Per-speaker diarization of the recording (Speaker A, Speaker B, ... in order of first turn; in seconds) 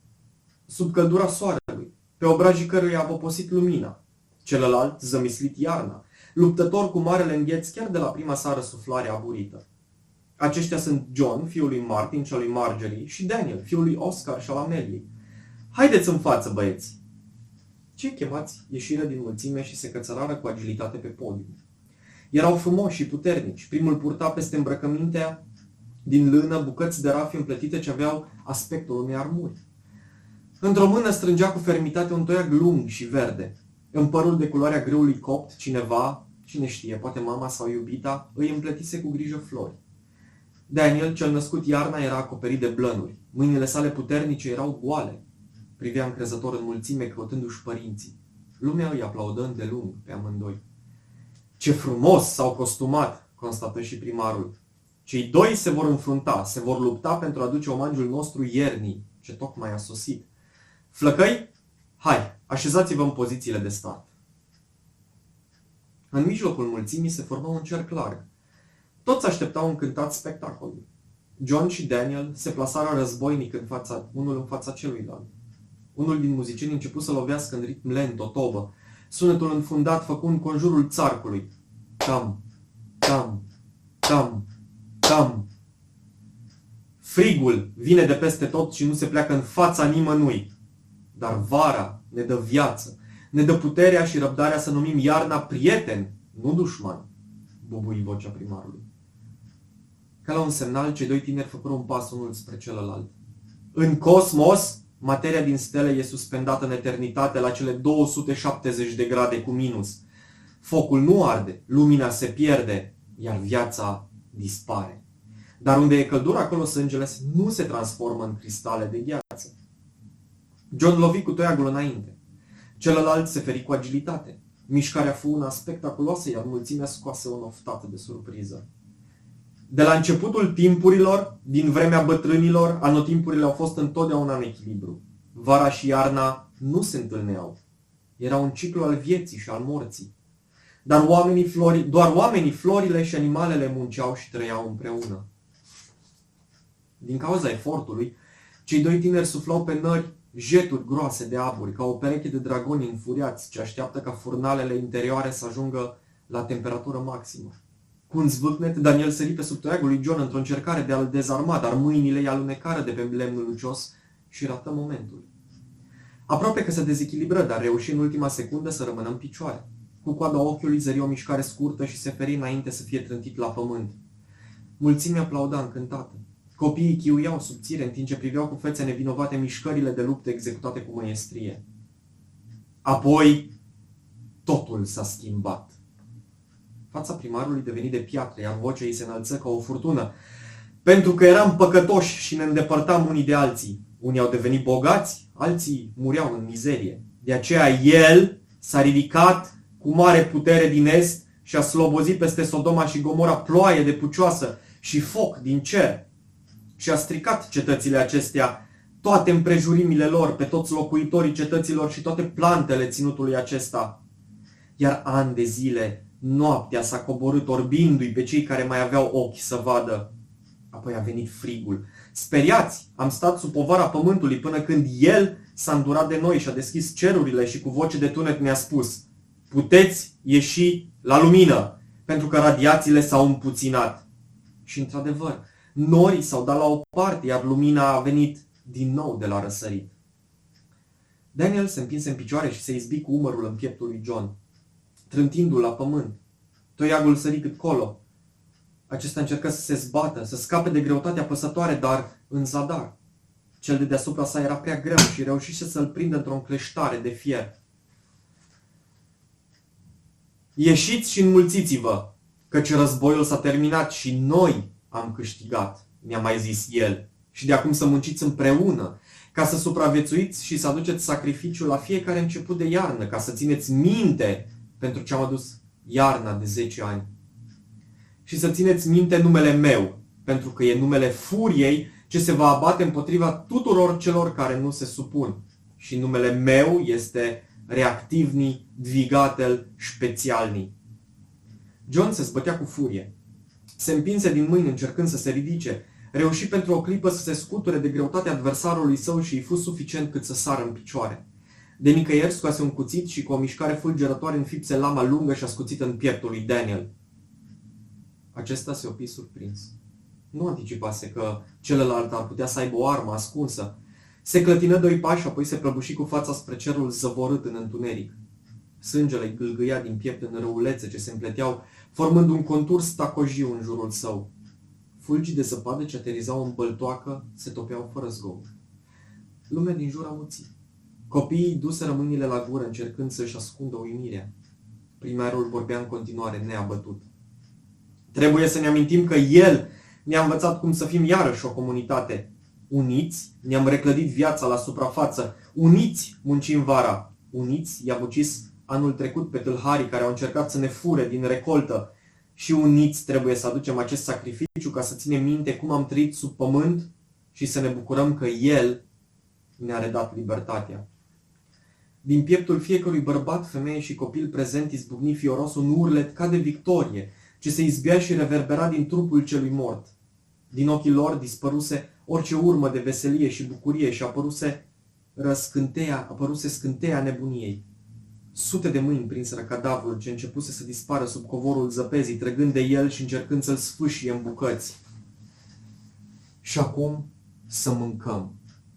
Speaker A: 0.7-9.6, 10.4-15.1, 15.7-17.0, 18.0-21.6, 22.3-25.4, 26.1-29.6, 30.6-39.8, 40.7-45.2, 45.8-50.6, 51.6-60.3, 60.9-64.1, 66.1-68.2, 69.0-70.8, 71.4-75.3, 76.0-81.5, 82.0-82.4, 83.0-83.5, 84.0-84.5, 85.0-85.5, 87.0-90.5, 91.1-97.1, 97.6-98.8, 100.2-103.1, 103.7-110.0, 110.6-115.0, 115.6-119.5, 120.7-122.2, 122.8-128.7, 129.7-137.6, 138.2-140.1, 140.8-145.2, 147.0-157.6, 158.1-165.3, 166.3-174.0, 174.8-181.6, 182.8-183.5, 184.4-185.8, 186.9-190.1, 190.8-206.1, 206.8-214.0, 214.8-220.1, 220.7-234.1, 234.7-239.9, 241.3-244.3, 245.1-246.2, 246.8-248.0, 248.9-252.9, 253.6-257.5, 260.6-277.1, 278.2-290.7, 291.9-293.1, 293.8-301.2, 301.8-306.9, 308.3-309.7, 310.3-318.2, 318.8-324.3, 325.0-328.5, 329.5-330.5, 331.1-334.3, 335.0-337.1, 338.1-358.8, 359.6-360.9, 362.0-369.9, 370.5-374.6, 375.2-377.6, 378.3-384.8, 386.4-388.4